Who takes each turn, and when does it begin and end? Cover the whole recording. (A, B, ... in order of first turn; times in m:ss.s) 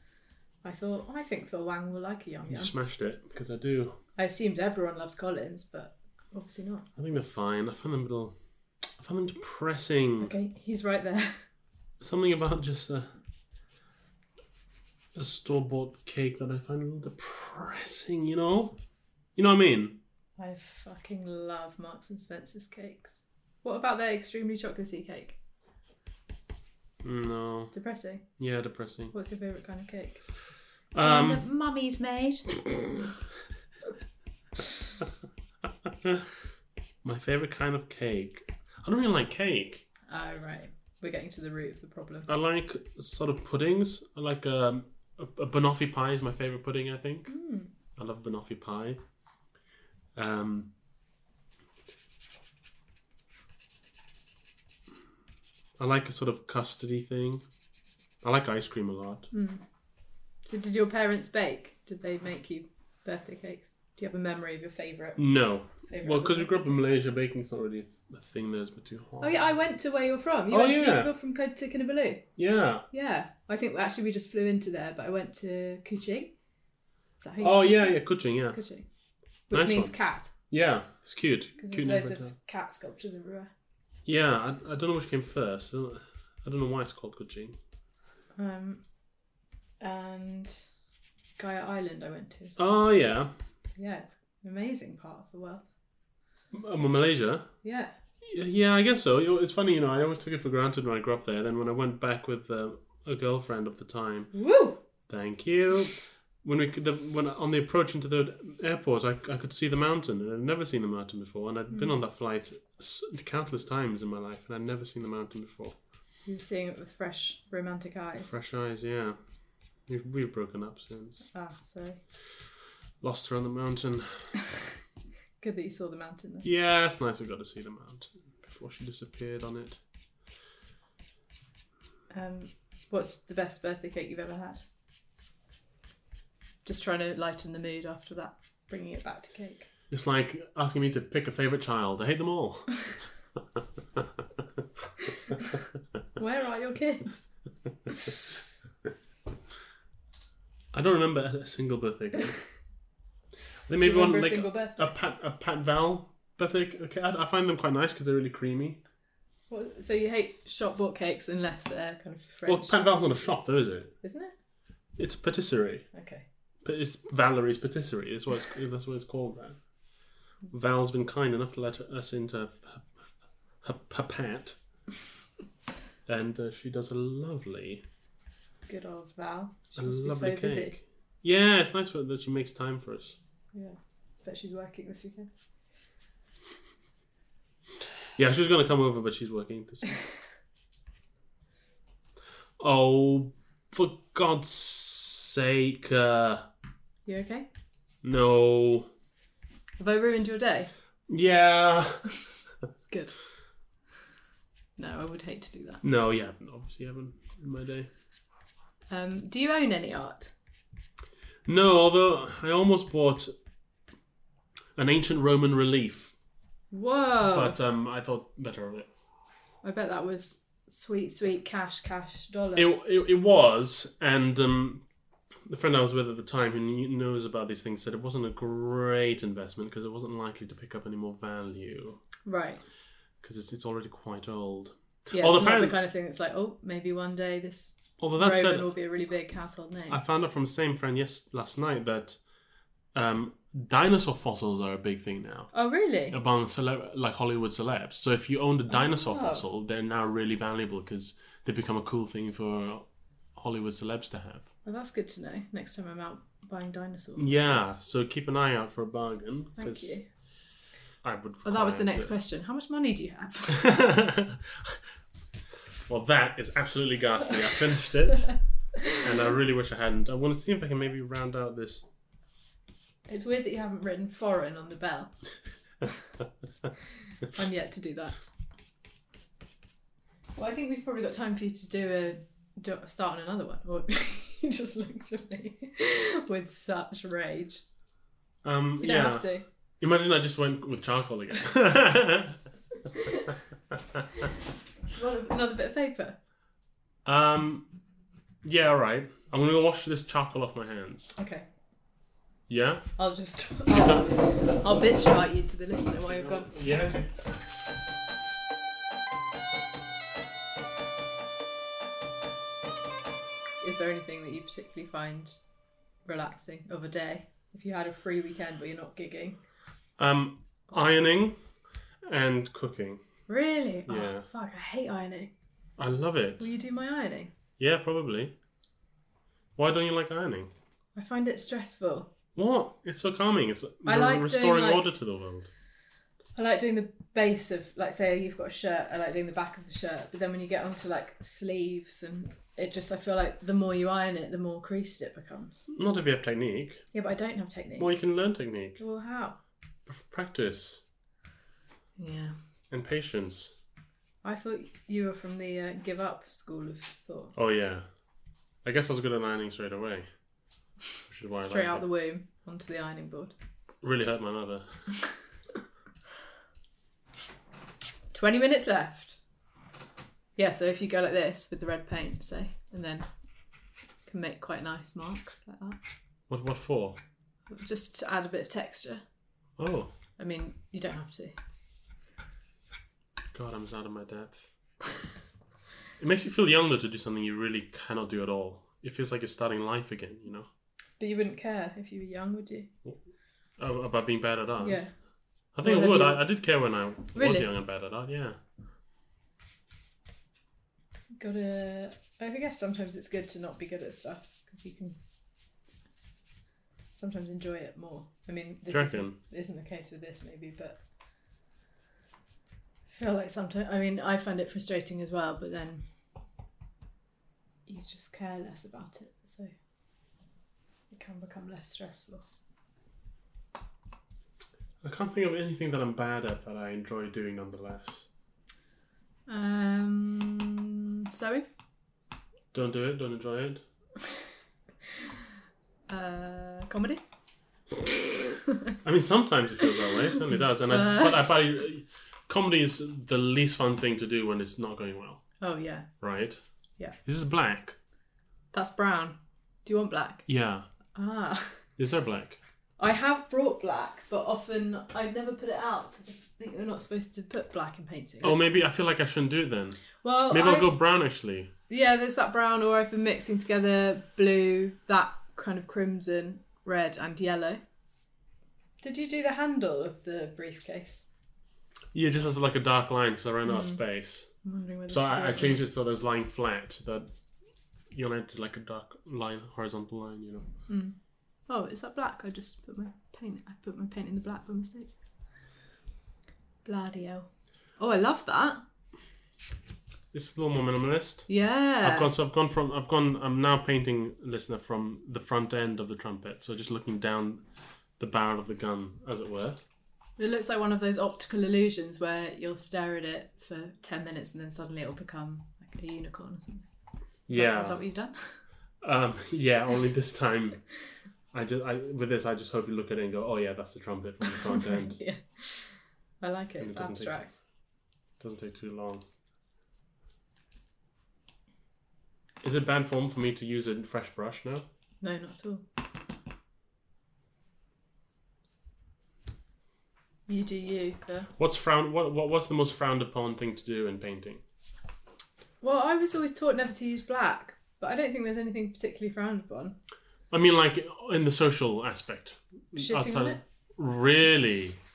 0:00.6-0:02.7 A
0:02.5-0:04.0 B
0:04.2-0:06.9 A
0:07.0-0:08.3 B
0:09.0-0:10.3 B
0:10.2-0:11.4 A
0:12.0-0:13.1 B
0:15.1-0:18.8 B
0:19.4-0:20.0 B
0:20.4-0:25.4 A
0:27.0-0:27.7 B
0:27.7-0:28.2 A
0:28.4-0:29.1 B
0:29.1-0:30.2 A
0:30.9-0:31.4 B
0:31.0-0:32.6 A
0:37.0-0:39.8 B
0:40.1-0:42.3 A
0:42.3-0:47.3 B
0:47.3-0:47.7 A
0:48.0-0:49.0 B
0:50.1-0:50.7 B
0:55.8-0:57.4 B
0:58.2-0:59.3 B
0:59.3-0:59.6 A
1:00.4-1:06.8 A
1:05.2-1:09.4 B
1:09.2-1:12.3 A
1:10.5-1:11.1 B
1:12.4-1:12.8 B
1:12.9-1:16.3 A
1:17.2-1:18.8 A
1:17.4-1:18.6 B
1:19.5-1:20.3 A
1:19.5-1:20.0 B
1:20.5-1:22.3 B
1:21.6-1:23.5 A
1:24.0-1:27.6 B
1:28.4-1:28.8 A
1:29.8-1:30.6 A
1:31.4-1:32.6 A
1:32.6-1:33.3 B
1:33.8-1:35.6 A
1:36.5-1:37.5 B
1:37.6-1:37.9 A
1:38.2-1:44.3 B
1:44.3-1:44.8 A
1:45.1-1:55.8 B
1:56.2-1:58.3 A
1:58.2-1:59.2 B
1:59.9-2:01.2 B
2:01.3-2:02.0 A
2:03.0-2:04.3 B
2:05.4-2:06.5 A
2:06.4-2:09.8 B
2:12.1-2:14.6 A
2:16.6-2:19.7 A
2:19.9-2:22.9 B
2:26.2-2:27.3 A
2:30.7-2:32.4 B
2:33.7-2:38.8 B
2:33.8-2:34.9 A
2:39.5-2:43.3 A
2:42.4-2:43.9 B
2:44.0-2:44.3 A
2:45.0-2:45.9 B
2:45.9-2:46.2 A
2:46.6-2:49.6 B
2:50.5-2:52.9 B
2:53.6-2:54.6 B
2:56.0-2:57.8 B
2:58.7-3:00.8 A
2:59.8-3:03.2 B
3:03.5-3:05.3 A
3:08.2-3:10.0 B
3:12.6-3:16.4 B
3:17.0-3:17.5 A
3:18.0-3:18.9 B
3:19.8-3:20.7 A
3:21.1-3:22.0 B
3:22.9-3:23.1 A
3:24.8-3:25.8 A
3:25.8-3:27.9 B
3:28.9-3:30.3 A
3:31.4-3:33.3 B
3:34.8-3:36.1 B
3:36.7-3:37.6 A
3:37.3-3:38.9 B
3:39.6-3:42.7 A
3:42.6-3:44.8 B
3:45.5-3:52.0 B
3:52.2-3:52.6 A
3:53.2-3:55.8 B
3:55.1-4:00.0 A
3:58.0-3:58.7 B
3:59.9-4:02.2 B
4:02.9-4:05.5 B
4:05.5-4:06.2 A
4:06.1-4:14.5 B
4:08.7-4:09.4 A
4:14.6-4:17.7 A
4:17.2-4:20.0 B
4:19.6-4:20.0 A
4:21.0-4:22.1 B
4:21.4-4:23.7 A
4:23.5-4:24.8 B
4:25.8-4:28.3 B
4:28.9-4:31.8 B
4:33.1-4:35.1 A
4:37.3-4:38.2 A
4:40.4-4:47.6 A
4:48.4-4:49.3 B
4:48.8-4:49.4 A
4:49.8-4:52.4 B
4:52.9-4:53.3 A
4:54.9-4:56.2 A
4:57.0-4:57.7 B
4:58.4-5:01.2 B
5:01.2-5:01.5 A
5:02.5-5:02.9 B
5:03.0-5:06.5 A
5:03.7-5:04.2 B
5:06.0-5:07.1 B
5:13.6-5:15.4 A
5:16.0-5:19.4 A
5:20.0-5:21.4 B
5:22.1-5:23.0 B
5:23.3-5:25.3 A
5:23.9-5:24.2 B
5:25.8-5:26.5 B
5:26.4-5:27.3 A
5:27.6-5:28.3 B
5:29.6-5:30.5 B
5:30.9-5:32.1 A
5:32.4-5:35.5 B
5:33.8-5:34.8 A
5:36.4-5:45.7 A
5:45.7-5:46.8 B
5:46.9-5:47.9 A
5:47.8-5:48.8 B
5:48.8-5:49.4 A
5:49.8-5:50.8 B
5:52.0-5:52.3 A
5:52.7-5:53.5 B
5:54.2-5:57.3 A
5:57.3-5:57.8 B
5:58.6-6:00.1 B
6:01.1-6:01.8 B
6:01.3-6:03.3 A
6:03.8-6:04.7 B
6:08.1-6:09.2 A
6:10.4-6:13.1 A
6:14.0-6:15.8 A
6:16.3-6:17.0 B
6:17.5-6:19.0 A
6:19.6-6:19.9 B
6:20.2-6:21.4 A
6:23.3-6:24.5 B
6:26.0-6:30.5 B
6:31.0-6:32.7 A
6:33.6-6:34.8 B
6:34.6-6:34.9 A
6:35.5-6:38.4 B
6:35.6-6:36.3 A
6:37.1-6:37.5 A
6:41.2-6:45.0 A
6:46.9-6:50.8 A
6:48.7-6:49.2 B
6:52.9-6:55.8 A
6:57.7-6:59.5 A
7:00.9-7:02.2 A
7:04.8-7:08.1 B
7:09.3-7:11.4 A
7:12.5-7:13.6 B
7:15.9-7:17.0 A
7:18.8-7:25.2 B
7:20.6-7:21.3 A
7:25.4-7:25.9 A
7:26.0-7:26.4 B
7:27.0-7:27.8 B
7:28.5-7:30.2 A
7:30.3-7:30.6 B
7:30.9-7:31.6 A
7:31.8-7:32.4 B
7:32.8-7:38.4 A
7:38.2-7:41.5 B
7:40.0-7:40.7 A
7:41.7-7:47.6 A
7:48.8-7:51.0 A
7:51.9-7:54.3 B
7:53.4-7:53.8 A
7:54.4-7:55.6 A
7:54.9-7:57.1 B
7:57.9-8:00.4 B
8:00.7-8:00.9 A
8:01.5-8:04.9 A
8:06.6-8:08.6 A
8:10.1-8:17.4 B
8:11.3-8:12.1 A
8:18.0-8:19.6 B
8:20.2-8:26.7 A
8:27.3-8:27.8 B
8:27.3-8:28.4 A
8:28.8-8:30.6 B
8:31.3-8:35.0 B
8:34.5-8:37.4 A
8:36.6-8:37.2 B
8:38.2-8:39.0 B
8:42.4-8:44.6 B
8:45.0-8:45.6 A
8:50.3-8:51.3 A
8:51.4-8:54.4 B
8:55.6-8:59.8 A
9:00.3-9:04.8 B
9:02.8-9:03.4 A